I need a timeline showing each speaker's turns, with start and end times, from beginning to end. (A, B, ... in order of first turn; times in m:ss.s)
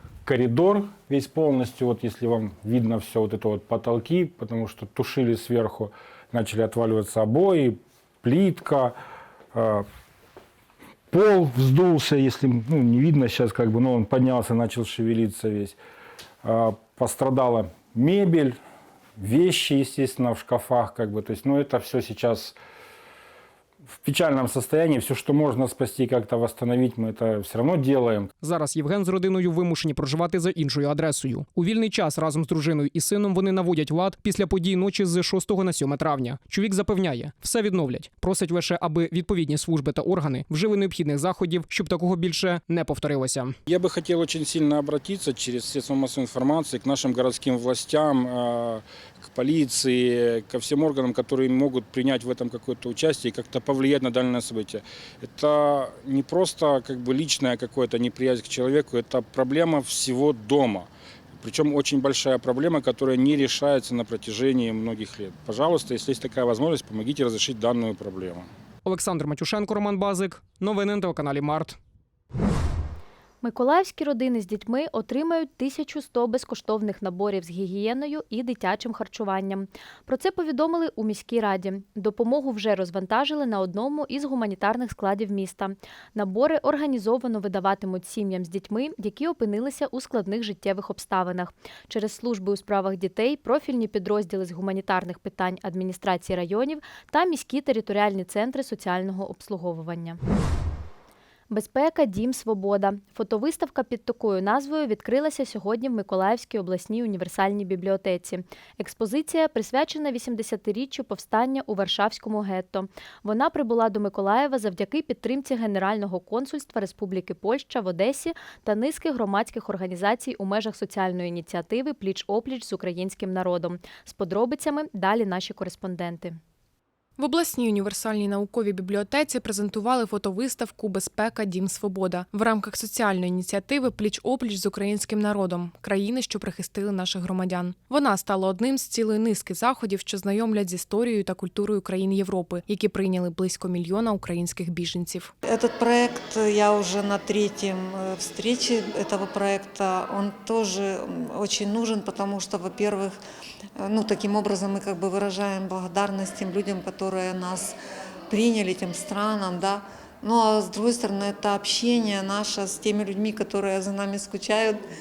0:00.2-0:08.9 A
0:09.5-0:09.8 A
0:11.1-0:15.8 A
0:16.4-0:18.6 A
0:19.2-0:22.6 A
0:24.0-0:28.3 A
0:28.4-0:43.5 B
0:43.7-1:08.5 A
1:08.8-1:11.8 B
1:13.4-1:40.2 C
1:41.5-2:06.4 C
2:07.2-2:25.3 D
2:25.4-2:33.1 E
2:33.8-2:37.7 E
2:38.3-2:44.8 E